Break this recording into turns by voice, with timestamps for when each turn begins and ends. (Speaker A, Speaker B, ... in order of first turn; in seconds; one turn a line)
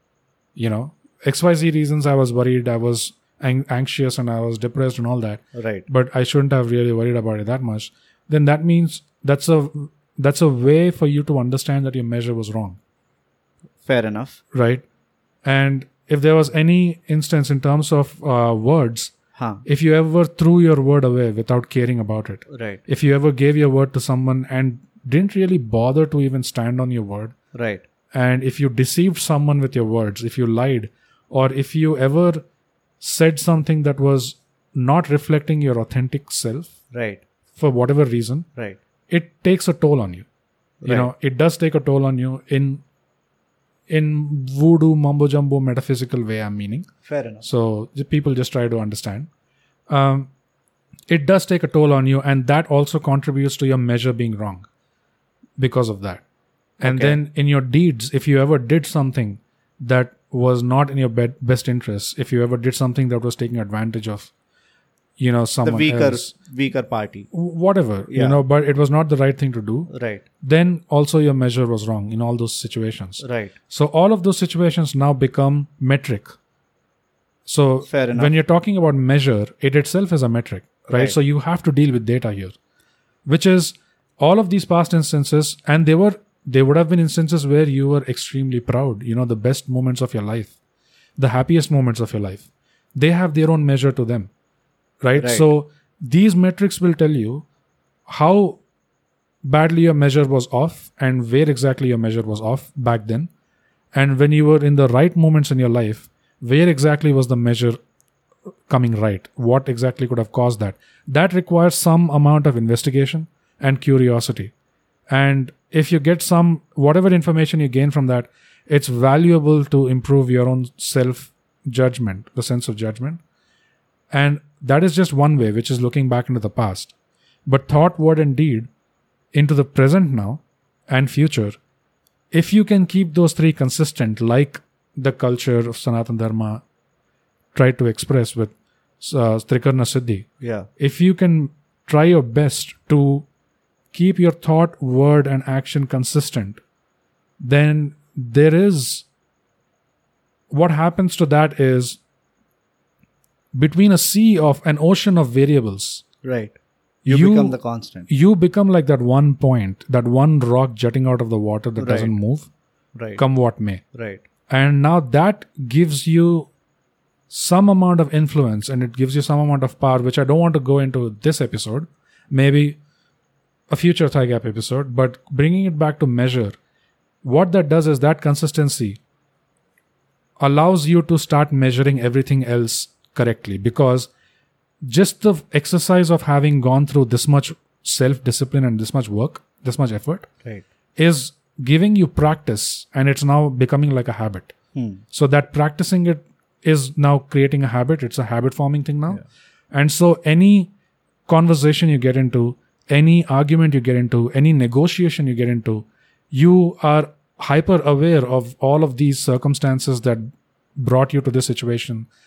Speaker A: 0.6-12.8
Speaker B: 5.5-5.8
Speaker B: 13.8-14.4
Speaker A: 14.5-14.8
Speaker A: 15.4-19.1
Speaker B: 19.4-19.6
Speaker A: 19.6-27.3
Speaker B: 22.5-22.8
Speaker B: 27.5-27.8
Speaker A: 28.1-32.4
Speaker A: 33.0-36.7
Speaker B: 36.9-37.2
Speaker A: 37.5-38.5
Speaker A: 39.1-40.2
Speaker B: 40.8-41.1
Speaker A: 40.9-42.8
Speaker A: 43.9-46.9
Speaker B: 47.0-47.4
Speaker A: 47.4-49.3
Speaker A: 49.9-50.3
Speaker A: 51.1-54.6
Speaker A: 55.6-56.2
Speaker B: 56.8-57.2
Speaker A: 56.8-64.3
Speaker A: 65.2-66.3
Speaker B: 65.6-67.3
Speaker A: 67.3-69.9
Speaker B: 68.1-68.4
Speaker B: 69.9-70.2
Speaker A: 70.4-76.3
Speaker B: 73.2-73.5
Speaker A: 77.5-82.5
Speaker B: 77.8-78.3
Speaker B: 80.9-81.2
Speaker A: 83.2-90.5
Speaker A: 91.2-94.3
Speaker A: 95.0-97.4
Speaker B: 95.2-95.4
Speaker A: 98.1-98.6
Speaker A: 99.4-103.3
Speaker A: 103.9-107.8
Speaker A: 108.7-114.5
Speaker A: 115.1-123.2
Speaker A: 124.1-126.9
Speaker A: 127.5-128.7
Speaker A: 129.3-131.6
Speaker A: 132.3-136.6
Speaker A: 137.5-140.3
Speaker B: 140.4-140.7
Speaker A: 140.8-143.2
Speaker A: 143.9-146.6
Speaker A: 147.4-149.1
Speaker A: 150.5-152.0
Speaker A: 153.5-156.0
Speaker B: 156.2-156.6
Speaker A: 157.0-157.6
Speaker B: 157.1-158.1
Speaker A: 158.1-162.5
Speaker B: 161.8-162.1
Speaker B: 162.9-163.2
Speaker A: 163.2-163.8
Speaker B: 163.9-164.2
Speaker A: 164.5-166.5
Speaker A: 167.3-172.8
Speaker A: 173.7-176.5
Speaker A: 177.2-179.0
Speaker A: 180.4-184.1
Speaker A: 184.8-190.3
Speaker A: 191.0-194.5
Speaker B: 194.7-195.0
Speaker A: 195.1-199.2
Speaker A: 199.7-200.7
Speaker A: 201.3-210.2
Speaker A: 210.8-212.1